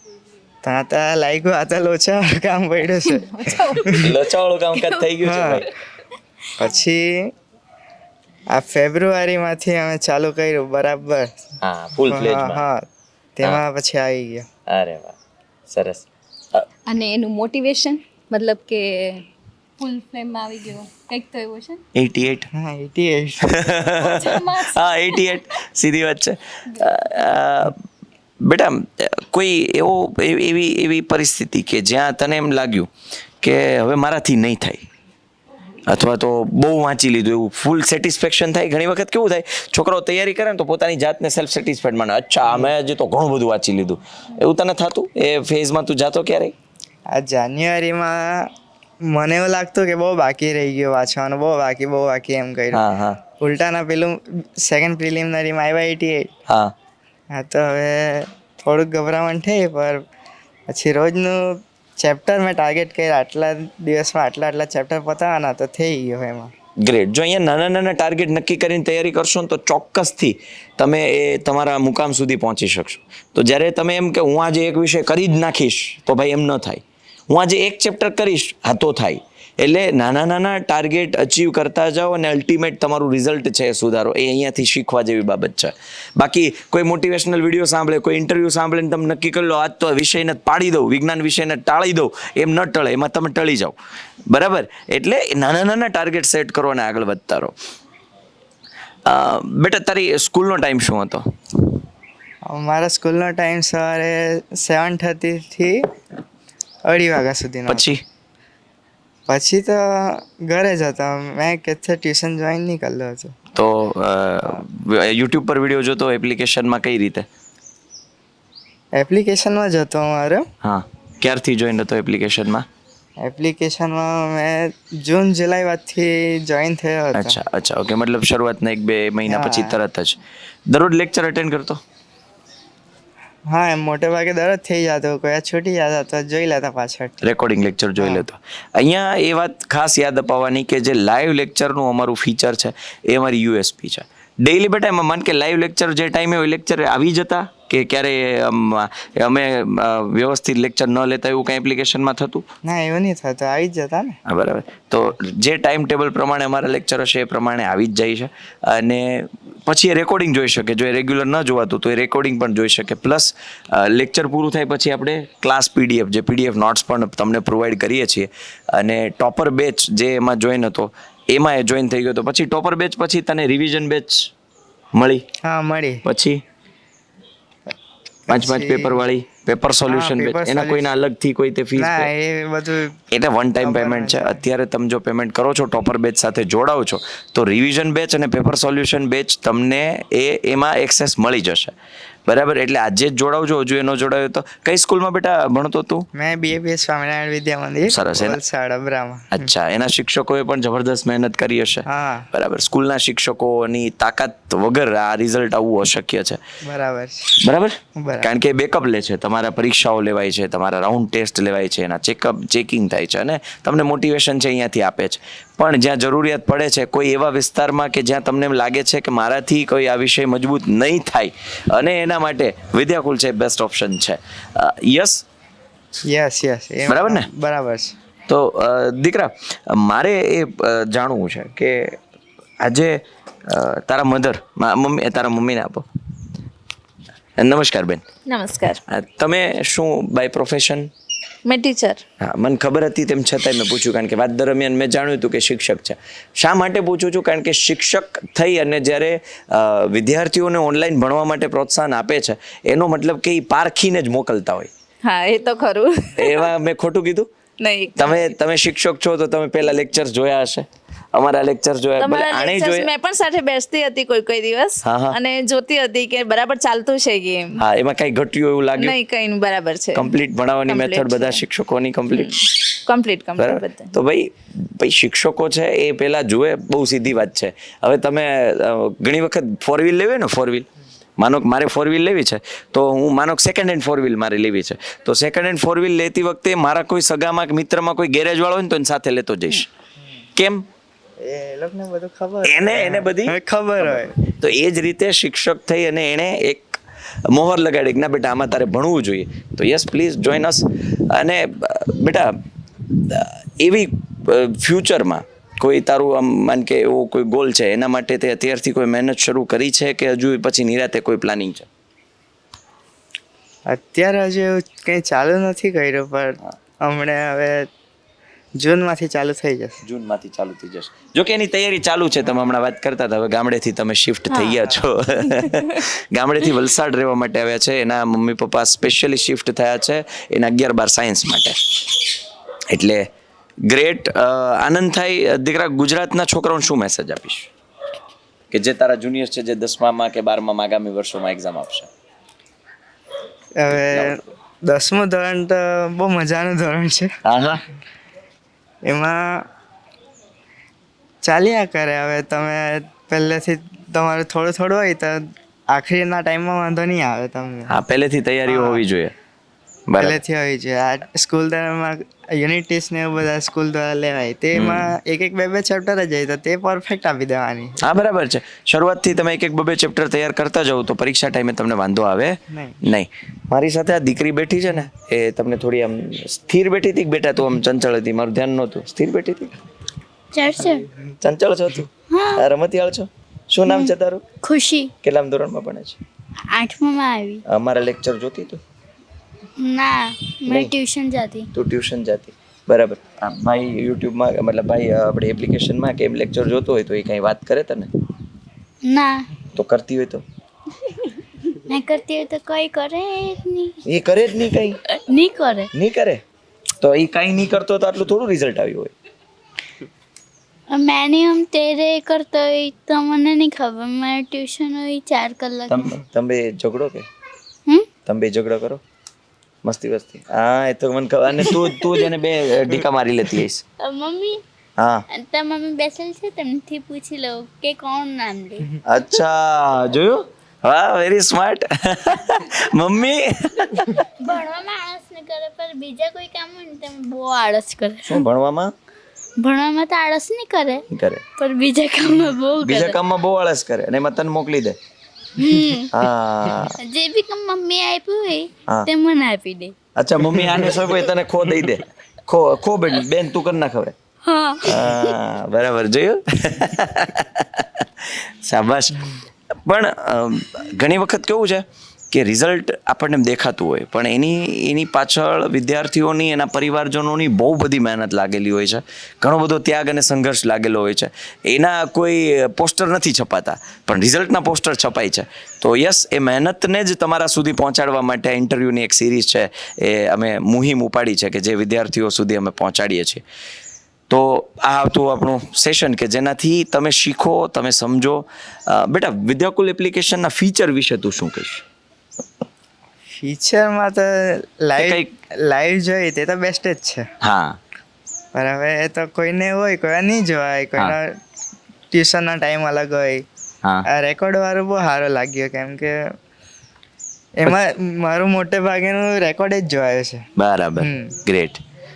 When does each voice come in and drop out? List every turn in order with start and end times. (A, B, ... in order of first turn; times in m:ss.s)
0:00.6-0:04.1 A
0:03.0-0:04.2 B
0:03.9-0:05.7 C
0:04.7-0:05.1 B
0:05.2-0:05.7 A
0:06.6-0:07.3 A
0:08.5-0:11.5 A
0:11.6-0:12.6 C
0:12.1-0:14.5 A
0:14.7-0:16.7 C
0:16.9-0:19.3 B
0:19.8-0:21.8 B
0:22.0-0:22.5 C
0:22.5-0:23.4 A
0:23.5-0:27.8 C
0:24.0-0:25.4 B
0:28.4-0:32.9 C
0:33.4-0:34.8 C
0:35.9-0:46.6 C
0:42.4-0:42.7 A
0:47.1-0:48.5 A
0:49.1-0:52.8 A
0:52.7-0:53.2 C
0:53.4-0:56.3 A
0:56.5-0:56.7 C
0:57.3-1:00.0 A
1:00.7-1:06.5 A
1:06.8-1:33.8 C
1:34.3-1:37.5 C
1:39.1-1:41.3 C
1:42.5-1:45.9 A
1:46.9-1:47.9 A
1:47.7-1:48.0 C
1:49.3-1:53.3 A
1:53.5-1:57.3 C
1:59.0-2:00.4 A
2:00.6-2:02.7 C
2:03.2-2:07.4 A
2:07.2-2:11.8 C
2:09.3-2:09.8 A
2:13.5-2:17.2 A
2:17.2-2:32.5 C
2:18.0-2:18.2 A
2:32.6-2:34.2 A
2:34.3-2:54.3 C
2:55.0-2:55.3 C
2:55.4-2:56.0 A
2:56.0-2:56.4 C
2:58.3-2:59.0 A
2:58.3-3:02.1 C
2:59.9-3:00.9 A
3:01.8-3:02.9 A
3:03.1-3:11.7 C
3:03.6-3:04.4 A
3:12.3-3:16.1 C
3:16.2-3:19.5 A
3:17.9-3:18.4 C
3:19.3-3:26.4 C
3:21.9-3:22.3 A
3:26.7-3:27.4 A
3:27.4-3:45.2 C
3:28.0-3:28.3 A
3:46.1-3:47.9 A
3:46.9-3:47.3 C
3:48.3-3:52.0 C
3:52.6-3:55.8 C
3:57.4-3:58.0 C
3:58.3-3:58.8 D
3:58.9-4:00.9 C
4:01.4-4:02.0 D
4:02.2-4:14.7 C
4:15.0-4:16.3 D
4:16.2-4:17.3 C
4:17.6-4:18.2 D
4:18.0-4:22.9 C
4:22.0-4:27.6 D
4:24.8-4:25.2 C
4:27.6-4:29.0 C
4:28.8-4:30.1 D
4:30.0-4:32.8 C
4:30.7-4:31.4 D
4:32.9-4:33.9 D
4:33.4-4:40.7 C
4:41.2-4:49.7 C
4:50.4-4:50.7 C
4:51.2-4:54.1 A
4:52.4-5:02.4 C
5:02.9-5:11.7 C
5:13.7-5:17.7 A
5:18.6-5:19.8 A
5:19.8-5:32.0 C
5:24.3-5:24.7 E
5:32.7-5:33.1 C
5:33.7-5:37.5 C
5:38.5-5:41.9 C
5:43.6-5:47.1 A
5:43.7-5:44.2 C
5:47.2-5:47.6 C
5:48.9-5:49.4 A
5:51.2-5:55.2 A
5:55.7-5:57.7 A
5:57.7-5:59.1 C
5:58.5-5:58.8 A
5:59.9-6:00.2 C
6:00.0-6:07.8 A
6:04.6-6:05.0 C
6:07.8-6:19.5 C
6:12.5-6:12.8 A
6:20.3-6:20.9 E
6:21.2-6:24.2 C
6:22.1-6:22.4 E
6:23.7-6:24.9 E
6:25.0-6:26.0 C
6:26.4-6:27.4 E
6:27.5-6:28.6 C
6:29.6-6:31.5 E
6:30.5-6:30.8 C
6:31.5-6:37.9 C
6:38.8-6:39.3 E
6:39.5-6:40.2 C
6:41.5-6:43.8 E
6:43.8-6:44.8 C
6:44.9-6:45.7 E
6:45.7-6:46.2 C
6:46.8-6:48.9 C
6:50.7-6:55.9 E
6:55.7-6:57.1 C
6:58.1-6:58.8 C
6:59.6-7:03.6 C
7:03.8-7:04.4 E
7:04.8-7:05.0 C
7:05.1-7:08.8 E
7:08.9-7:14.0 C
7:14.2-7:18.2 E
7:18.1-7:18.7 C
7:19.4-7:20.8 E
7:20.9-7:21.2 C
7:21.4-7:23.0 E
7:22.6-7:24.8 C
7:25.4-7:25.9 E
7:25.9-7:26.8 C
7:26.8-7:29.8 E
7:30.0-7:34.0 C
7:34.2-7:35.1 E
7:34.6-8:03.2 C
8:04.1-8:11.6 C
8:13.2-8:17.0 A
8:14.8-8:15.1 C
8:17.2-8:17.6 C
8:18.4-8:21.2 A
8:21.9-8:23.2 A
8:23.9-8:26.0 A
8:27.4-8:30.2 A
8:30.4-8:31.6 C
8:30.8-8:31.2 A